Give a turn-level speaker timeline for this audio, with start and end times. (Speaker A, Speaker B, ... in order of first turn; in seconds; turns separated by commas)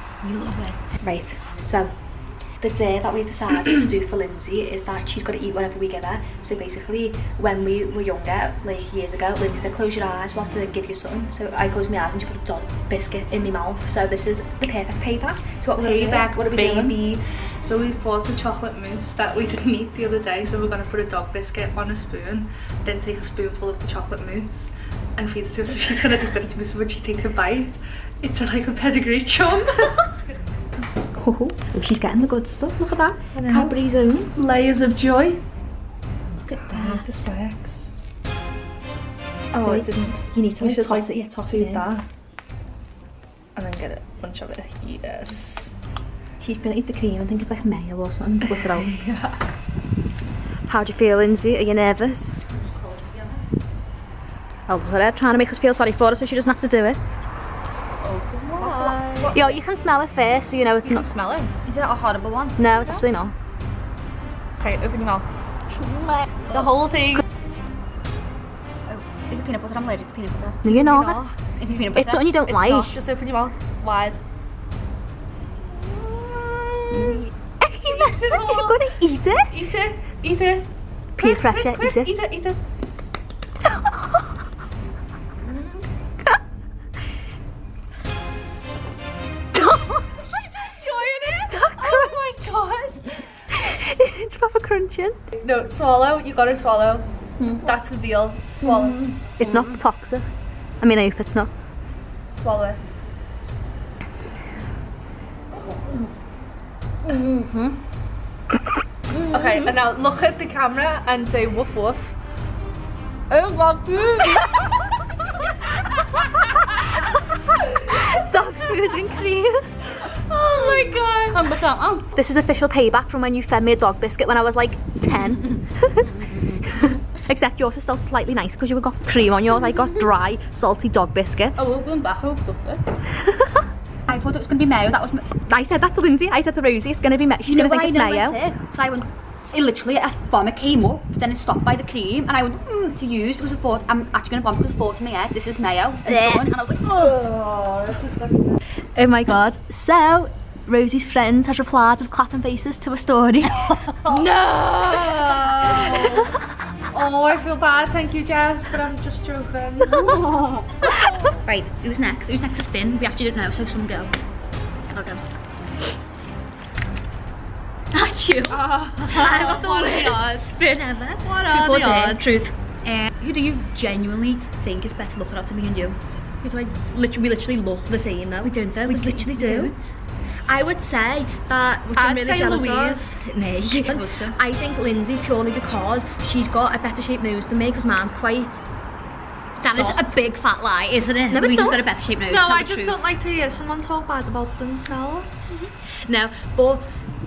Speaker A: 0.2-1.9, Speaker A: 2.6-17.2, Speaker B: 15.8-30.9, Speaker A: 30.9-34.3, Speaker B: 33.3-33.7, Speaker B: 34.3-35.4, Speaker A: 36.4-37.2, Speaker B: 36.6-37.9, Speaker A: 39.5-41.9, Speaker B: 39.5-42.0, Speaker B: 43.5-45.7, Speaker A: 46.4-49.0, Speaker B: 48.4-49.4, Speaker A: 50.7-52.4, Speaker C: 52.5-53.6, Speaker A: 54.7-57.0, Speaker C: 58.1-59.3, Speaker B: 58.6-59.5, Speaker A: 59.3-61.1, Speaker B: 60.8-61.5, Speaker C: 61.6-62.9, Speaker A: 62.6-63.3, Speaker B: 64.6-65.3, Speaker B: 66.5-67.2, Speaker C: 68.8-72.3, Speaker A: 70.6-71.2, Speaker A: 71.9-72.9, Speaker B: 72.5-74.2, Speaker B: 75.6-77.2, Speaker A: 77.6-79.5, Speaker B: 77.8-78.8, Speaker B: 79.5-82.6, Speaker A: 81.2-82.1, Speaker B: 85.4-85.8, Speaker A: 89.5-90.2, Speaker B: 90.2-93.2, Speaker A: 91.5-92.4, Speaker A: 93.5-95.2, Speaker B: 95.3-97.1, Speaker C: 97.4-97.7, Speaker B: 97.6-99.0, Speaker C: 98.6-99.8, Speaker A: 99.4-100.3, Speaker A: 100.8-101.5, Speaker B: 102.3-102.8, Speaker C: 107.0-107.8, Speaker C: 109.1-109.7, Speaker B: 109.3-112.2, Speaker B: 113.3-114.7, Speaker A: 117.9-119.7, Speaker B: 120.0-121.5, Speaker C: 120.6-122.0, Speaker A: 122.1-126.1, Speaker C: 125.4-126.6, Speaker A: 126.6-131.6, Speaker C: 129.7-130.0, Speaker C: 131.6-132.9, Speaker C: 134.1-135.3, Speaker A: 135.4-138.4, Speaker C: 137.4-146.9, Speaker A: 146.1-146.9, Speaker B: 146.8-148.6, Speaker A: 148.9-153.8, Speaker B: 154.1-156.3, Speaker A: 155.9-156.2, Speaker B: 156.9-160.2, Speaker A: 159.9-160.6, Speaker C: 160.0-160.4, Speaker C: 161.4-164.1, Speaker A: 164.9-165.2, Speaker C: 167.9-176.0, Speaker B: 168.5-170.6, Speaker B: 171.2-172.2, Speaker A: 171.5-172.5, Speaker A: 176.4-179.7, Speaker C: 178.4-179.9, Speaker A: 180.5-188.6, Speaker B: 181.9-183.2, Speaker C: 183.7-184.4, Speaker C: 189.6-193.0, Speaker A: 189.6-190.0, Speaker A: 191.3-191.8, Speaker B: 192.3-195.3, Speaker A: 196.1-196.8